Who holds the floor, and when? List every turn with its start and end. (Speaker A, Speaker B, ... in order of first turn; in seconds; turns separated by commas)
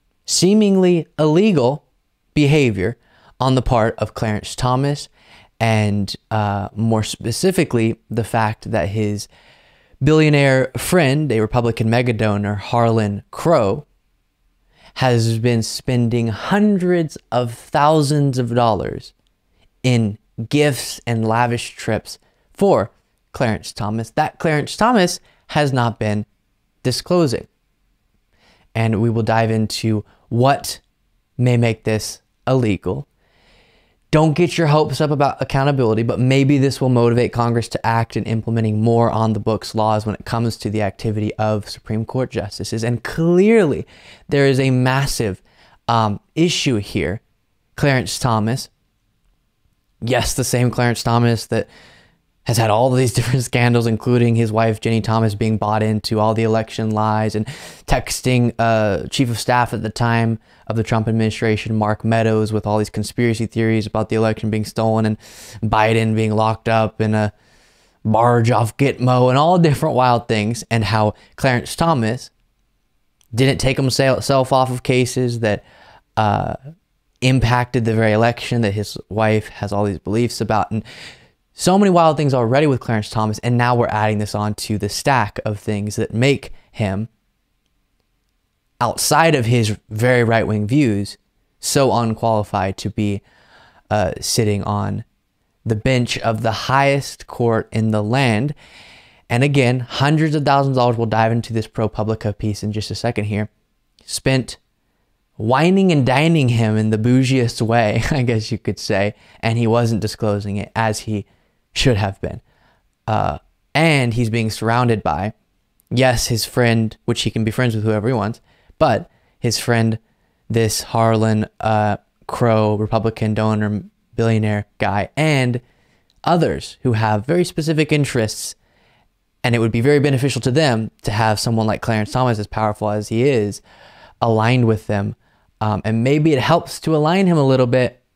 Speaker A: 0.2-1.8, Speaker A: 2.3-9.3, Speaker A: 10.0-13.9, Speaker A: 14.9-19.1, Speaker A: 19.8-26.3, Speaker A: 26.8-27.5, Speaker A: 28.7-30.8, Speaker A: 31.4-33.1, Speaker A: 34.1-47.2, Speaker A: 47.8-48.7, Speaker A: 50.0-51.7, Speaker A: 52.5-67.3, Speaker A: 68.0-72.3, Speaker A: 73.3-75.6, Speaker A: 76.2-76.6, Speaker A: 77.2-80.8, Speaker A: 81.6-87.1, Speaker A: 88.8-93.2, Speaker A: 93.9-95.0, Speaker A: 95.7-98.5, Speaker A: 99.3-103.5, Speaker A: 104.1-104.6, Speaker A: 105.4-112.4, Speaker A: 113.1-115.3, Speaker A: 115.9-125.6, Speaker A: 126.2-128.6, Speaker A: 129.4-133.6, Speaker A: 134.2-138.0